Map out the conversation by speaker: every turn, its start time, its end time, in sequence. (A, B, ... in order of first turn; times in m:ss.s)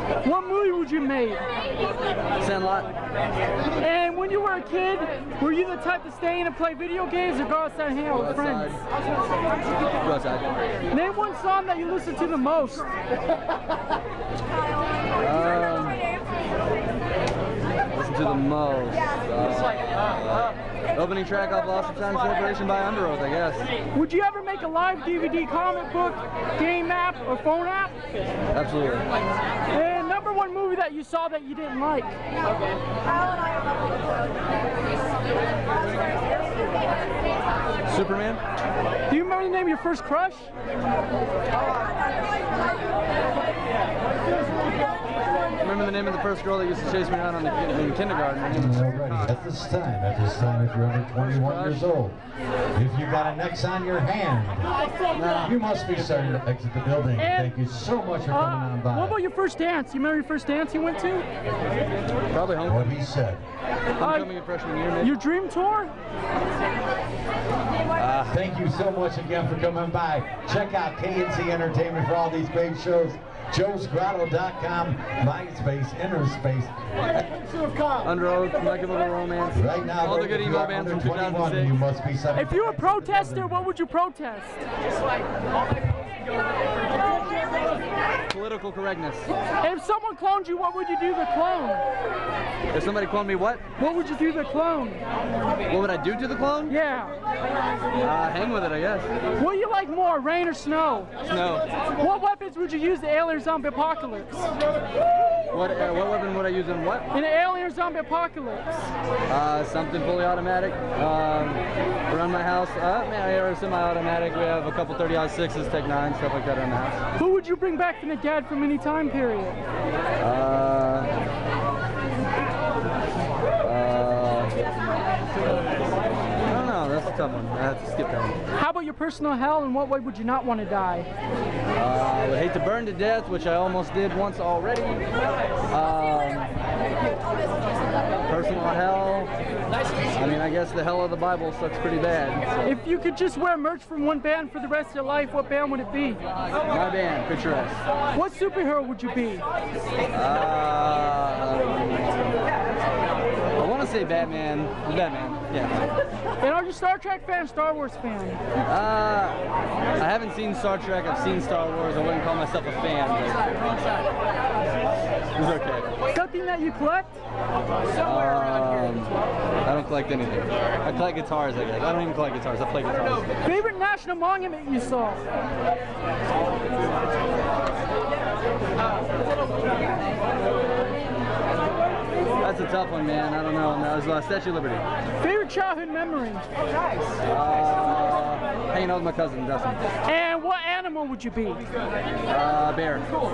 0:00.2-0:01.4 A
0:02.4-0:02.9 B
0:03.8-0:08.8 A
0:08.1-0:08.8 B
0:10.0-0:10.6 B
0:10.9-0:12.9 A
0:15.2-0:16.0 B
0:17.9-0:23.7 B
0:23.9-0:28.0 A
0:28.5-0:29.1 B
0:29.7-0:32.2 A
0:37.8-0:38.4 B
0:39.1-0:40.5 A
0:45.6-0:49.4 B
0:48.5-0:52.2 C
0:51.2-0:51.9 B
0:52.7-0:54.7 C
0:55.1-0:55.5 B
0:55.4-0:59.2 C
0:57.2-0:57.6 A
0:58.3-1:01.2 A
1:02.3-1:02.9 B
1:02.6-1:03.4 C
1:04.0-1:05.1 B
1:04.0-1:04.3 A
1:05.0-1:05.9 A
1:08.0-1:08.4 B
1:08.3-1:17.3 C
1:18.0-1:21.8 B
1:19.5-1:23.6 C
1:22.3-1:24.6 A
1:28.3-1:29.3 B
1:29.6-1:31.8 A
1:32.7-1:33.6 B
1:33.8-1:35.0 A
1:35.7-1:36.7 B
1:36.7-1:37.1 A
1:38.0-1:39.1 B
1:39.4-1:41.1 A
1:41.2-1:41.7 B
1:42.0-1:44.5 A
1:45.5-1:47.1 B
1:47.1-1:48.9 A
1:49.3-1:57.0 B
1:57.2-1:59.6 A
2:00.2-2:01.1 B
2:03.6-2:04.5 B
2:06.5-2:08.4 B
2:08.6-2:11.1 A
2:11.8-2:15.0 B
2:15.7-2:16.5 B
2:18.2-2:19.3 B
2:20.1-2:22.8 B
2:22.6-2:26.2 A
2:26.7-2:27.8 B
2:28.1-2:29.4 A
2:30.1-2:32.2 B
2:33.6-2:35.9 B
2:36.4-2:38.4 A
2:38.6-2:39.4 B
2:40.0-2:43.6 B
2:45.4-2:45.9 B
2:46.1-2:47.2 A
2:48.0-2:53.3 B
2:53.4-2:55.2 A
3:02.4-3:04.8 B
3:05.2-3:06.4 A
3:07.2-3:09.8 B
3:10.0-3:11.6 A
3:12.3-3:13.1 B